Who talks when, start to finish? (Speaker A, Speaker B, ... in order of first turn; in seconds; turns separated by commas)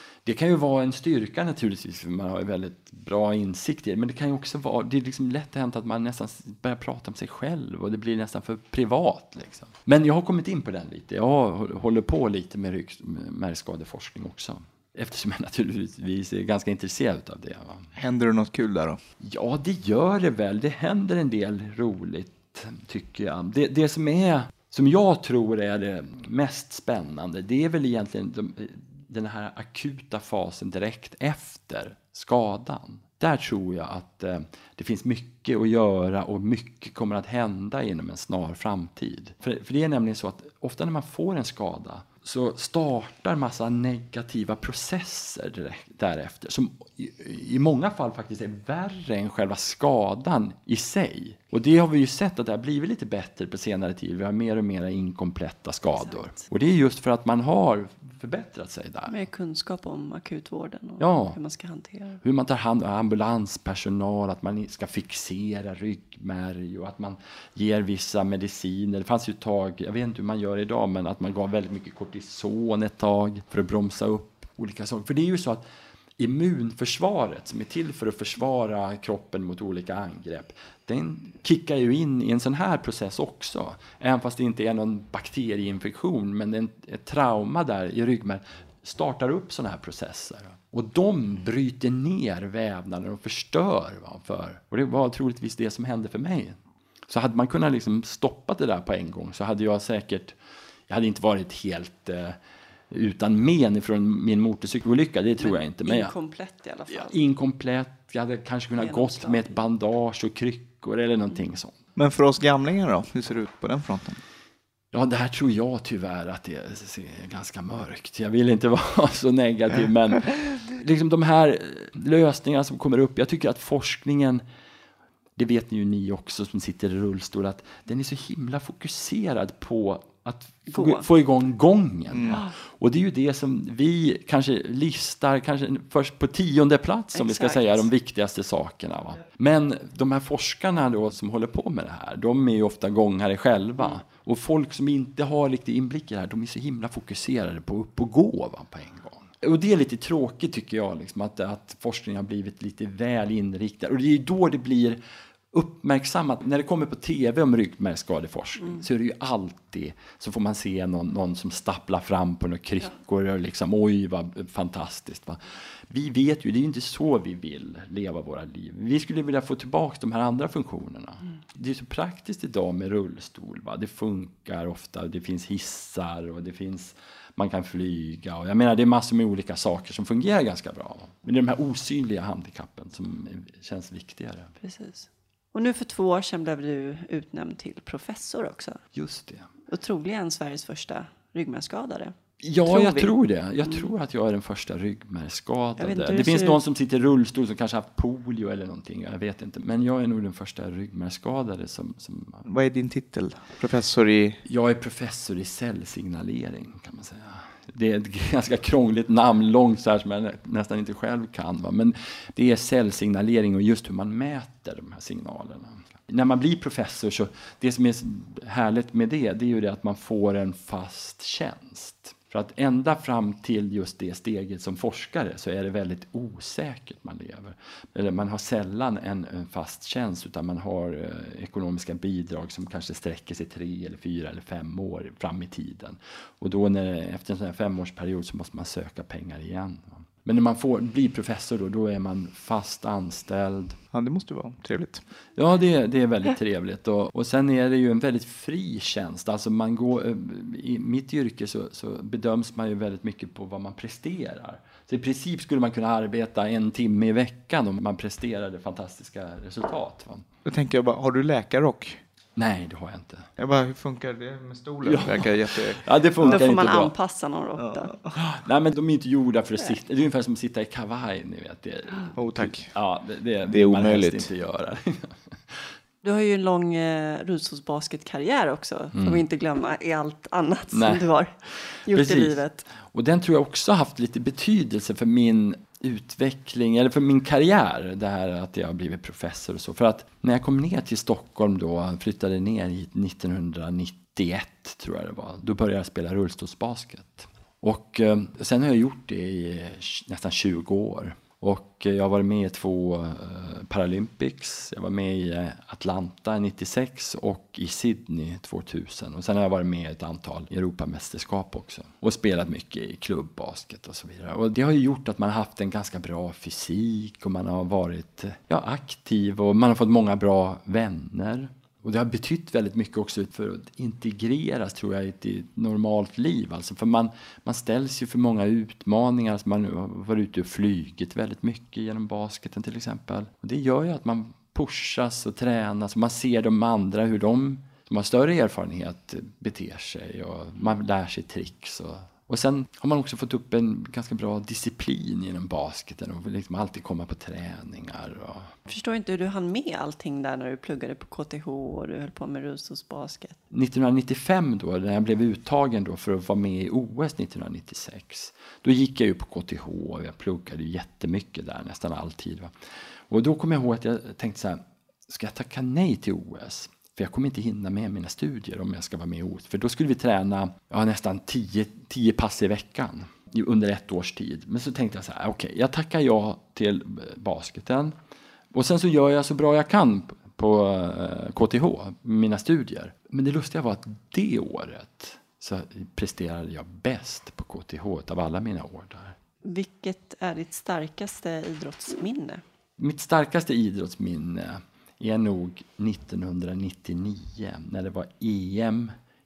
Speaker A: 0.2-17.9, Speaker B: 17.9-19.0, Speaker A: 19.2-59.1, Speaker C: 59.1-62.2, Speaker A: 61.0-61.4, Speaker A: 62.2-75.6, Speaker A: 76.2-96.6, Speaker A: 97.1-100.4, Speaker A: 100.9-102.4, Speaker A: 102.9-106.1, Speaker C: 105.4-107.2, Speaker A: 106.9-111.8, Speaker C: 108.8-109.6, Speaker B: 112.0-114.2, Speaker A: 114.9-124.4, Speaker A: 125.4-155.0, Speaker C: 130.7-131.1, Speaker B: 132.1-132.4, Speaker C: 137.1-137.9, Speaker A: 155.5-184.5, Speaker C: 184.6-188.8, Speaker A: 188.9-189.5, Speaker C: 189.7-192.1, Speaker A: 192.4-202.4, Speaker C: 192.7-193.1, Speaker C: 195.8-196.6, Speaker B: 202.4-204.4, Speaker A: 204.4-243.8, Speaker B: 243.9-245.0, Speaker A: 245.4-260.3, Speaker B: 260.4-262.0, Speaker A: 262.4-263.3, Speaker B: 263.4-266.4, Speaker A: 264.8-266.9, Speaker C: 266.2-267.9, Speaker B: 267.6-268.2, Speaker A: 268.1-275.7, Speaker B: 272.1-272.7, Speaker B: 273.5-274.3, Speaker C: 276.0-282.6, Speaker A: 278.9-279.2, Speaker A: 280.7-281.1, Speaker A: 281.8-348.5, Speaker C: 348.7-353.4, Speaker A: 353.5-362.5, Speaker A: 363.1-377.9, Speaker A: 378.5-389.2, Speaker C: 389.4-392.4, Speaker A: 392.8-398.9